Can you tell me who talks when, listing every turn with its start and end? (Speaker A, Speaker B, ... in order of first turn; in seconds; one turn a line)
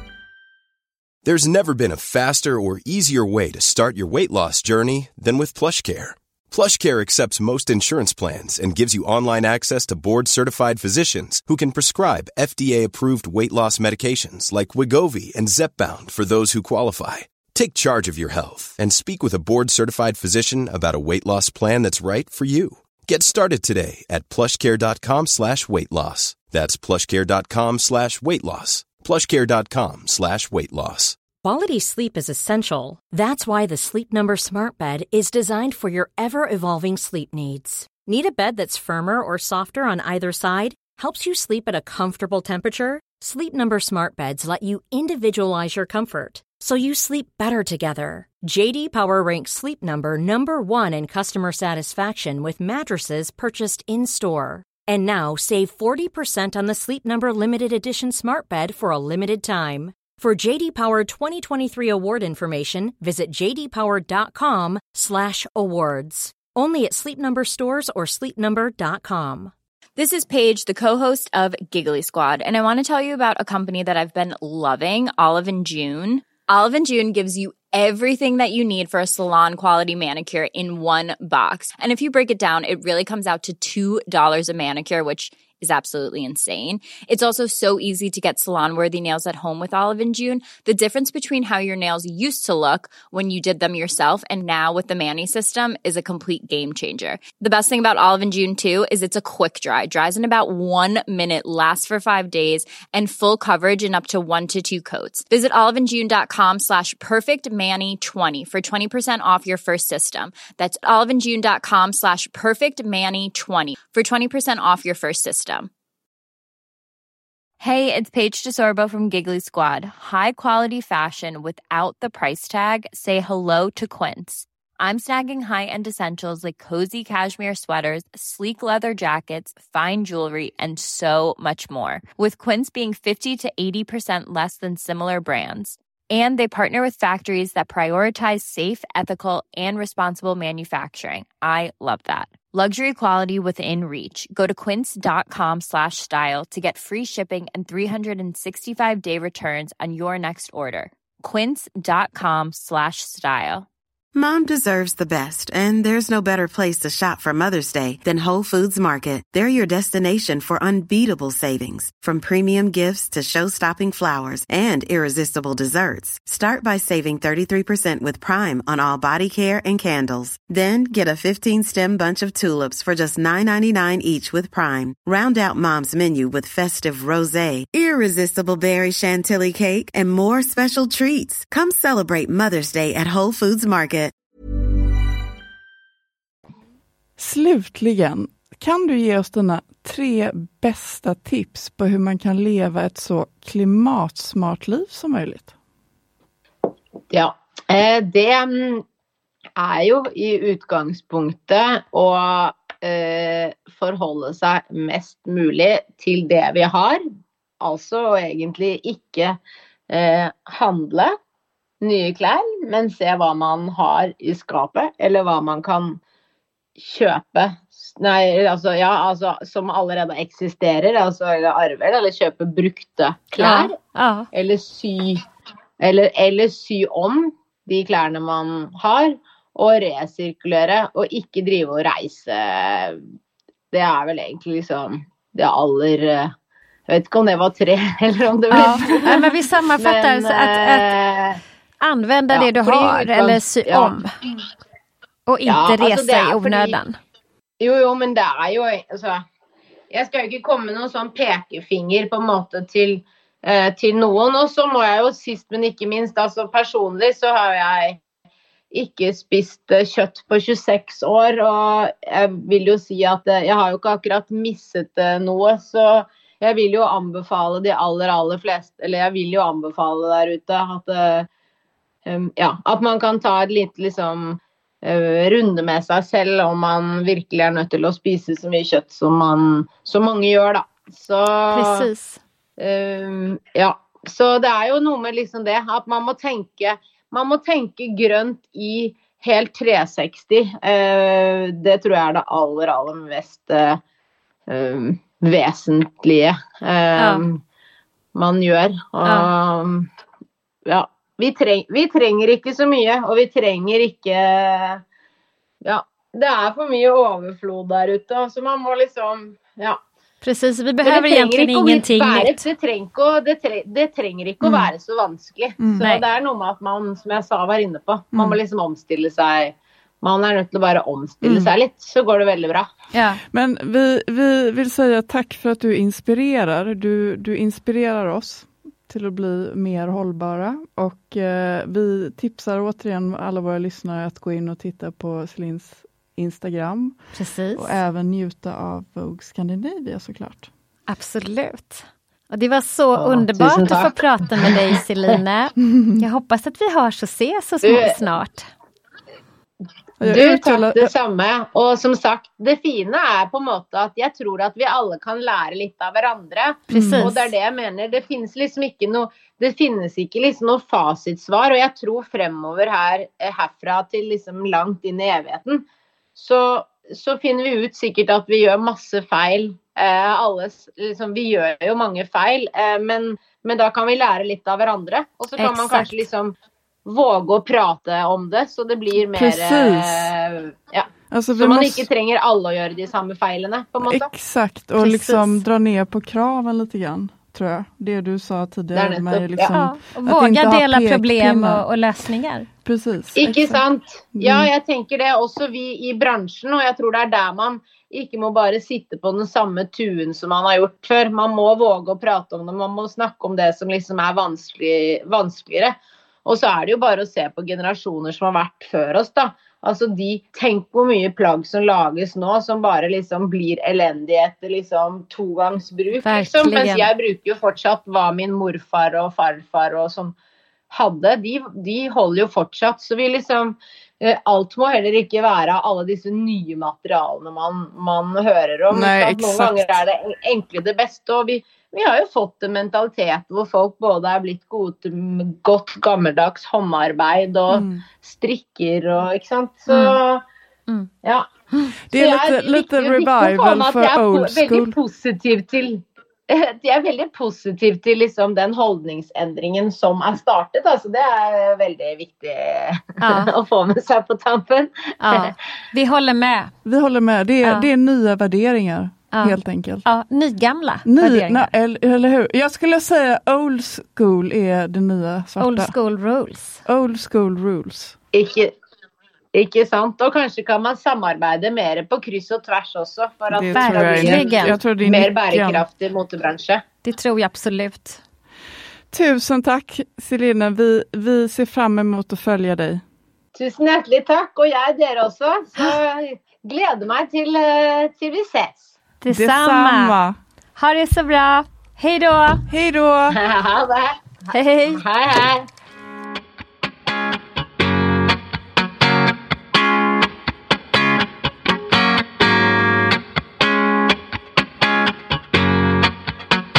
Speaker A: 1.2-31.2
Speaker B: 31.4-69.5
Speaker C: 70.0-115.7
Speaker C: 117.6-153.7
Speaker D: 154.1-184.1
Speaker E: 187.2-195.5
Speaker F: 197.1-198.8
Speaker F: 199.6-207.0
Speaker F: 207.6-209.4
Speaker F: 209.9-211.1
Speaker F: 211.8-216.0
Speaker F: 216.8-223.7
Speaker G: 223.4-224.3
Speaker F: 224.3-225.2
Speaker F: 225.8-233.0
Speaker F: 233.7-236.3
Speaker F: 236.9-239.2
Speaker G: 238.6-240.9
Speaker E: 238.6-239.0
Speaker F: 239.8-241.4
Speaker G: 241.8-244.1
Speaker F: 242.3-243.9
Speaker G: 245.3-247.0
Speaker F: 245.4-246.8
Speaker F: 247.6-249.2
Speaker F: 249.9-258.0
Speaker F: 258.7-271.3
Speaker F: 272.1-281.9
Speaker G: 281.5-282.2
Speaker F: 282.6-293.8
Speaker F: 294.5-297.4
Speaker G: 297.0-297.2
Speaker F: 298.1-299.9
Speaker F: 300.6-304.8
Speaker F: 305.6-309.8
Speaker G: 310.2-312.4
Speaker F: 310.8-322.7
Speaker E: 321.2-321.5
Speaker G: 322.9-323.2
Speaker E: 323.3-340.5
Speaker G: 337.1-337.8
Speaker G: 340.9-348.5
Speaker F: 343.0-344.6
Speaker F: 347.6-348.0
Speaker E: 350.0-350.9
Speaker F: 350.0-365.6
Speaker G: 356.7-357.3
Speaker E: 356.7-357.1
Speaker F: 366.1-384.1
Speaker G: 375.4-376.0
Speaker E: 379.1-380.1
Speaker E: 381.1-381.9
Speaker E: 383.9-391.6
Speaker G: 384.8-385.4
Speaker F: 388.7-389.6
Speaker G: 389.5-392.5
Speaker E: 392.6-393.6
Speaker F: 393.1-420.1
Speaker E: 394.1-394.5
Speaker G: 416.0-416.9
Speaker F: 420.7-440.2
Speaker E: 428.7-429.8
Speaker E: 437.5-437.9
Speaker G: 439.7-440.0
Speaker E: 441.9-444.8
Speaker F: 441.9-455.3
Speaker G: 453.0-453.3
Speaker G: 455.0-456.5
Speaker E: 456.6-459.9
Speaker G: 457.4-457.7
Speaker G: 459.1-461.5
Speaker E: 460.8-465.7
Speaker G: 465.4-466.6
Speaker E: 466.6-467.9
Speaker F: 468.1-468.5
Speaker F: 469.3-476.6
Speaker E: 473.3-475.6
Speaker G: 473.5-474.6
Speaker G: 476.8-478.0
Speaker E: 478.9-482.8
Speaker F: 483.3-488.7
Speaker G: 489.0-489.9
Speaker E: 489.1-490.2
Speaker G: 490.6-492.4
Speaker E: 492.5-493.2
Speaker F: 493.1-494.0
Speaker G: 494.3-494.8
Speaker F: 494.7-495.5